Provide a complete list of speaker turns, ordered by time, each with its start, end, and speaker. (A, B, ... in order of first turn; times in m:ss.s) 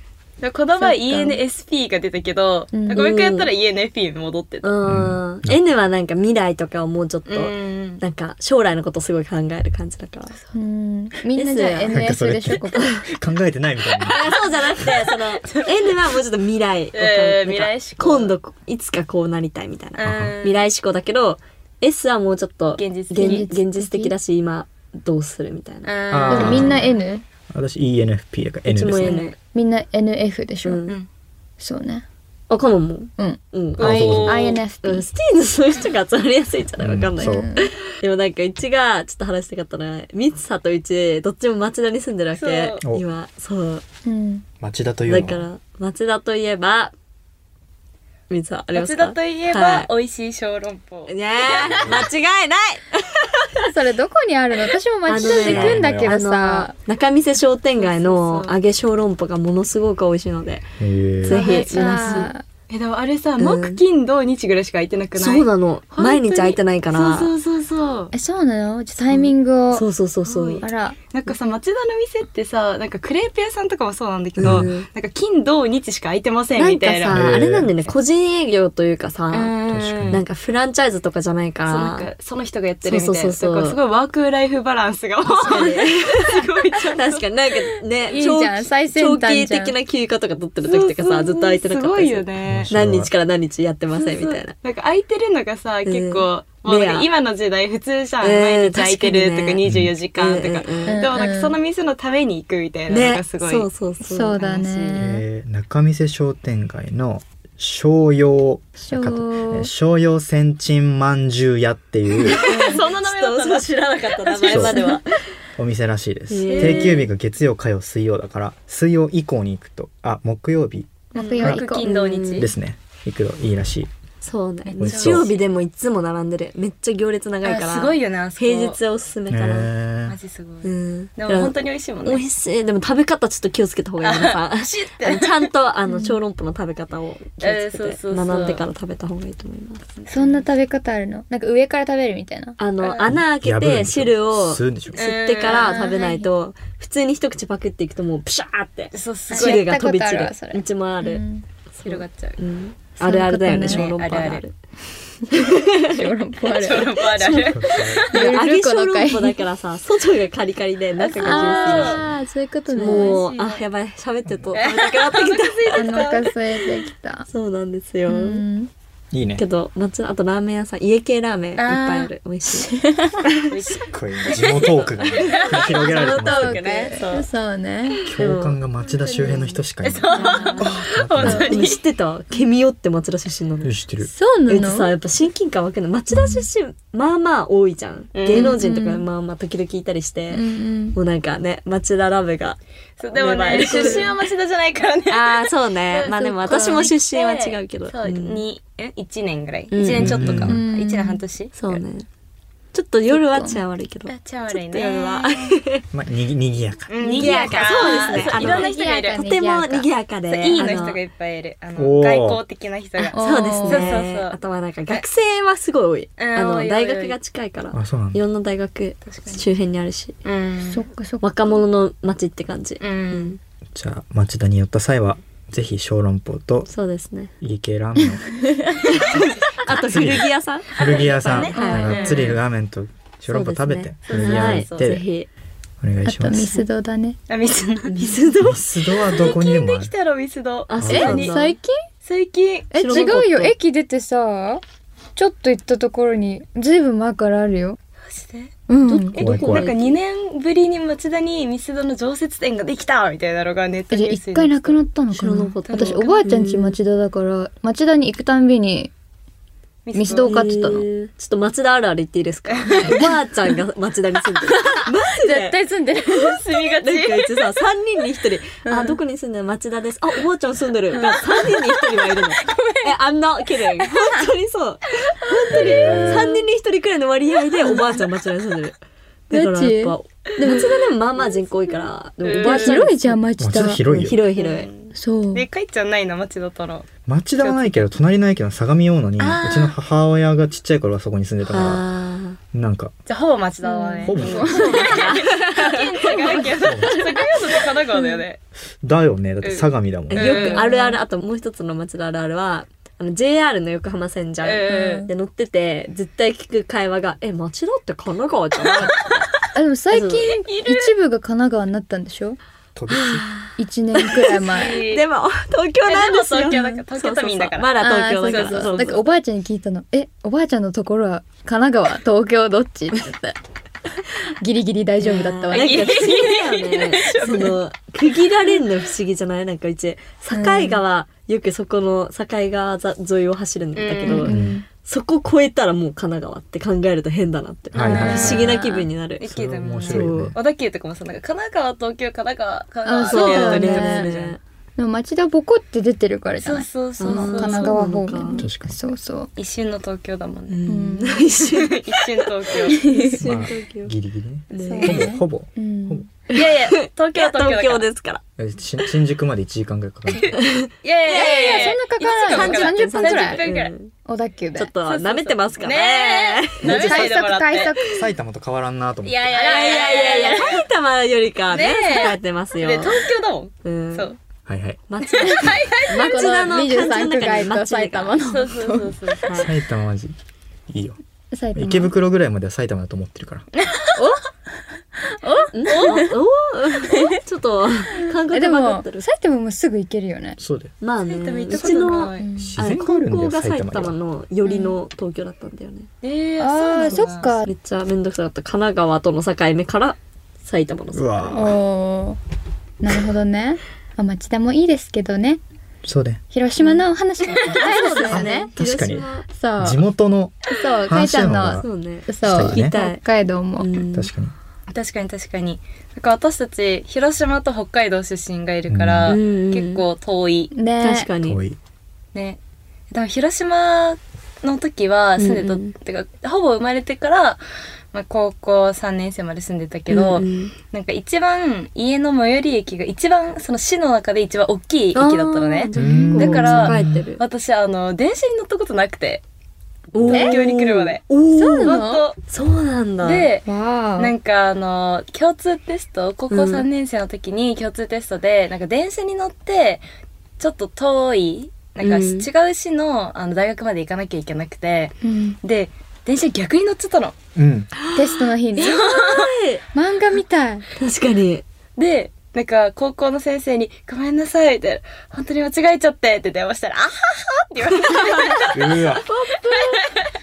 0:00.4-0:04.8 A
0:00.8-0:01.4 B
0:02.7-0:03.0 B
0:02.9-0:03.5 C
0:04.6-0:10.4 C
0:04.9-0:05.6 D
0:07.3-0:08.0 A
0:10.5-0:13.0 B
0:11.4-0:12.0 C
0:11.9-0:14.3 D
0:14.0-0:26.7 C
0:14.1-0:14.5 A
0:15.4-0:16.0 A
0:16.9-0:18.3 A
0:20.0-0:20.7 A
0:20.0-0:20.4 D
0:22.8-0:23.5 A
0:23.2-0:24.2 B
0:25.8-0:26.8 A
0:26.1-0:26.8 D
0:26.3-0:27.2 B
0:27.5-0:29.2 D
0:28.7-0:29.4 C
0:29.0-0:29.4 A
0:29.5-0:30.8 B
0:30.6-0:31.0 C
0:31.6-0:32.0 B
0:32.5-0:34.2 C
0:33.2-0:35.1 B
0:33.8-0:34.6 A
0:33.8-0:34.6 D
0:34.8-0:43.8 C
0:36.8-0:37.5 D
0:37.2-0:37.7 B
0:42.4-0:42.8 A
0:44.0-0:44.4 B
0:44.6-0:45.5 D
0:45.1-0:46.9 C
0:48.3-0:49.9 C
0:48.7-0:52.1 A
0:51.1-0:53.7 C
0:51.8-0:52.1 D
0:53.6-0:56.7 B
0:55.1-1:00.7 C
0:55.2-0:56.2 D
0:57.8-0:58.6 A
1:00.8-1:01.4 D
1:01.2-1:02.3 C
1:01.3-1:08.1 A
1:01.3-1:02.4 B
1:03.4-1:03.8 C
1:05.2-1:07.3 C
1:08.1-1:09.9 B
1:09.1-1:10.7 C
1:10.2-1:17.9 A
1:10.6-1:11.0 B
1:14.4-1:14.9 C
1:14.4-1:14.7 D
1:16.6-1:19.6 C
1:17.1-1:17.7 D
1:19.3-1:20.2 A
1:19.7-1:20.2 D
1:20.1-1:22.1 C
1:21.7-1:27.3 A
1:22.8-1:23.8 C
1:25.3-1:34.5 C
1:28.1-1:29.7 B
1:30.6-1:32.7 A
1:32.4-1:33.1 D
1:33.9-1:43.7 A
1:35.9-1:37.1 C
1:38.2-1:39.6 C
1:39.6-1:39.9 D
1:40.2-1:41.0 C
1:40.9-1:41.6 B
1:42.9-1:44.4 C
1:44.0-1:45.2 B
1:44.4-1:45.1 A
1:45.0-1:52.4 D
1:48.8-1:49.7 B
1:52.2-1:55.2 C
1:52.3-1:55.0 A
1:52.5-1:52.8 B
1:54.5-1:54.8 D
1:55.6-2:01.6 D
1:56.3-1:57.1 C
1:56.5-1:57.0 A
2:01.1-2:02.0 B
2:01.2-2:02.5 A
2:01.5-2:02.5 C
2:02.4-2:03.9 D
2:04.2-2:09.7 C
2:04.7-2:05.4 A
2:04.8-2:05.3 D
2:07.4-2:08.8 A
2:09.3-2:10.2 D
2:10.1-2:12.2 A
2:10.6-2:19.8 C
2:14.0-2:15.5 A
2:15.9-2:16.2 B
2:17.4-2:18.7 A
2:20.0-2:20.4 A
2:20.1-2:22.6 B
2:22.6-2:34.6 C
2:22.8-2:23.1 A
2:23.0-2:25.0 D
2:24.9-2:26.1 A
2:25.5-2:26.3 B
2:28.9-2:29.7 A
2:29.3-2:31.4 B
2:31.8-2:32.4 A
2:33.0-2:33.9 B
2:33.5-2:34.4 A
2:35.2-2:37.0 B
2:35.4-2:36.1 C
2:36.5-2:38.3 A
2:37.2-2:42.0 C
2:37.5-2:38.1 D
2:38.1-2:39.4 B
2:41.0-2:42.0 A
2:41.2-2:43.3 B
2:42.7-2:43.6 A
2:42.8-2:46.0 C
2:44.3-2:44.6 D
2:44.5-2:46.3 A
2:45.8-2:47.3 B
2:47.3-2:48.4 C
2:48.1-2:48.7 B
2:49.1-2:49.4 D
2:49.4-2:53.4 C
2:51.6-2:52.1 A
2:53.4-2:55.9 A
2:53.7-2:56.6 D
2:55.3-2:57.3 C
2:56.0-2:58.0 B
2:58.1-3:01.6 D
2:58.2-2:58.6 C
2:58.9-3:01.8 A
3:00.1-3:01.5 B
3:00.1-3:00.7 C
3:01.2-3:03.7 C
3:03.6-3:04.1 D
3:04.0-3:04.9 B
3:04.5-3:12.6 C
3:08.2-3:08.6 A
3:08.3-3:09.1 B
3:10.3-3:11.0 B
3:13.0-3:21.8 A
3:13.1-3:14.1 C
3:15.1-3:18.4 C
3:19.7-3:20.5 C
3:20.0-3:20.6 D
3:20.5-3:21.2 B
3:21.6-3:22.1 C
3:22.7-3:25.8 C
3:23.1-3:23.6 B
3:24.1-3:25.6 A
3:25.9-3:28.6 D
3:26.9-3:29.2 A
3:27.0-3:31.0 C
3:28.4-3:29.9 B
3:30.3-3:35.1 A
3:31.8-3:32.4 D
3:33.0-3:40.2 C
3:33.1-3:34.0 B
3:36.2-3:37.2 A
3:37.7-3:38.2 D
3:39.0-3:39.5 A
3:40.2-3:40.8 A
3:40.7-3:41.3 B
3:41.2-3:43.4 C
3:42.8-3:43.4 A
3:43.7-3:46.7 D
3:46.7-3:47.3 C
3:47.4-3:48.4 D
3:48.9-3:52.2 C
3:49.0-3:49.4 A
3:49.6-3:55.1 D
3:50.7-3:52.4 A
3:51.5-3:52.2 B
3:53.3-3:55.3 C
3:54.1-3:55.0 A
3:55.8-3:56.6 D
3:56.0-3:57.2 B
3:57.3-3:58.2 A
3:57.9-3:58.7 C
3:58.4-3:59.9 D
3:59.1-4:01.4 A
4:00.7-4:01.6 C
4:00.8-4:01.3 D
4:00.9-4:01.8 B
4:02.0-4:02.7 A
4:02.7-4:03.5 C
4:02.7-4:04.6 B
4:05.2-4:07.8 B
4:08.1-4:08.6 A
4:08.7-4:09.2 B
4:08.9-4:10.0 C
4:09.2-4:14.8 A
4:09.2-4:09.7 D
4:13.9-4:18.9 B
4:15.1-4:16.8 C
4:15.7-4:16.2 A
4:19.8-4:20.4 A
4:19.9-4:20.9 B
4:20.2-4:25.6 C
4:22.5-4:23.1 A
4:25.1-4:26.4 B
4:26.1-4:27.5 A
4:26.8-4:38.8 C
4:28.7-4:29.0 B
4:30.9-4:32.7 A
4:35.3-4:36.2 A
4:35.5-4:36.3 D
4:35.9-4:36.4 B
4:37.6-4:38.0 A
4:39.3-4:43.2 C
4:39.3-4:40.8 B
4:40.5-4:41.7 A
4:42.2-4:42.8 A
4:42.4-4:43.8 B
4:43.4-4:44.2 D
4:43.8-4:44.7 C
4:44.3-4:46.9 A
4:44.9-4:45.4 B
4:47.1-4:51.9 D
4:47.4-4:47.9 A
4:49.2-4:49.7 C
4:51.5-4:52.4 C
4:52.5-4:52.9 D
4:53.1-4:58.4 A
4:53.6-4:55.2 B
4:54.0-4:54.9 D
4:54.4-4:56.5 C
4:56.1-4:57.1 B
4:56.6-4:57.0 D
4:58.0-4:58.2 B
4:58.8-5:00.5 D
4:59.4-5:00.7 A
5:00.1-5:09.3 C
5:00.4-5:01.0 B
5:04.4-5:05.1 A
5:04.7-5:05.1 B
5:08.6-5:09.3 A
5:09.5-5:12.4 B
5:09.9-5:10.3 C
5:10.4-5:10.9 A
5:12.8-5:13.3 D
5:12.9-5:19.0 C
5:13.6-5:14.8 B
5:14.4-5:15.0 A
5:15.8-5:18.8 A
5:17.8-5:23.4 B
5:24.4-5:26.0 B
5:25.0-5:39.2 C
5:25.5-5:27.6 A
5:30.3-5:30.8 B
5:33.8-5:34.3 A
5:34.1-5:34.7 B
5:34.3-5:34.6 D
5:37.7-5:38.6 D
5:37.8-5:44.4 A
5:37.9-5:38.8 B
5:39.2-5:40.4 D
5:39.8-5:40.3 C
5:42.8-5:44.1 B
5:43.1-5:44.4 C
5:44.8-5:49.3 B
5:46.4-5:47.8 A
5:47.0-5:48.5 C
5:48.4-5:48.8 D
5:49.4-5:50.6 A
5:50.5-5:53.9 C
5:50.7-5:51.3 B
5:51.4-5:52.8 A
5:52.7-5:53.2 B
5:53.2-5:56.1 D
5:54.5-5:55.1 C
5:54.6-5:56.1 B
5:56.3-5:58.2 C
5:56.3-5:57.9 A
5:58.4-6:00.4 D
6:00.1-6:03.7 A
6:00.4-6:03.9 C
6:01.1-6:03.5 B
6:04.1-6:04.7 B
6:04.6-6:07.1 C
6:04.8-6:07.7 A
6:06.7-6:08.0 B
6:07.9-6:09.5 D
6:09.0-6:10.7 A
6:09.4-6:13.0 C
6:09.7-6:10.2 B
6:11.5-6:14.2 A
6:13.6-6:14.1 C
6:14.5-6:14.8 D
6:14.9-6:18.2 C
6:15.2-6:16.4 A
6:15.2-6:18.9 B
6:18.3-6:19.4 A
6:19.3-6:19.5 C
6:19.3-6:20.2 D
6:20.7-6:21.0 D
6:21.3-6:21.9 B
6:21.6-6:23.5 D
6:23.6-6:24.0 A
6:24.0-6:24.2 B
6:25.1-6:26.1 B
6:25.5-6:29.1 C
6:25.6-6:26.1 A
6:28.0-6:30.4 B
6:30.4-6:30.7 D
6:30.8-6:35.9 C
6:31.0-6:32.3 A
6:32.2-6:32.6 B
6:32.4-6:34.0 D
6:34.5-6:34.8 A
6:36.0-6:37.3 A
6:36.4-6:37.5 B
6:36.9-6:41.4 C
6:40.9-6:41.6 D
6:41.3-6:42.2 B
6:42.8-6:45.4 B
6:45.8-6:46.2 D
6:46.3-6:48.5 B
6:47.4-6:49.3 C
6:48.1-6:49.1 D
6:49.3-6:49.8 B
6:49.6-6:51.7 D
6:50.5-6:53.8 B
6:51.6-6:53.0 C
6:52.2-6:52.8 D
6:53.6-6:54.1 C
6:53.9-6:54.3 D
6:54.7-7:00.5 A
6:58.7-6:59.2 D
6:59.1-6:59.8 C
7:00.5-7:01.1 B
7:00.8-7:01.4 C
7:01.2-7:01.6 D
7:02.1-7:02.4 A
7:02.9-7:07.4 A
7:05.2-7:05.7 C
7:07.9-7:19.2 A
7:09.9-7:10.5 C
7:15.0-7:17.2 C
7:15.8-7:17.0 D
7:19.9-7:23.3 C
7:20.0-7:21.0 A
7:20.1-7:20.4 B
7:21.3-7:22.0 B
7:21.6-7:22.2 A
7:23.0-7:23.5 A
7:23.5-7:24.1 B
7:24.0-7:29.8 A
7:26.3-7:26.7 C
7:30.4-7:37.2 A
7:31.8-7:32.3 C
7:35.0-7:35.4 B
7:37.4-7:37.7 D
7:37.8-7:39.6 C
7:37.9-7:38.9 B
7:38.6-7:39.4 A
7:39.7-7:40.7 B
7:40.8-7:41.4 C
7:41.8-7:50.1 A
7:47.8-7:49.8 C
7:48.5-7:49.0 D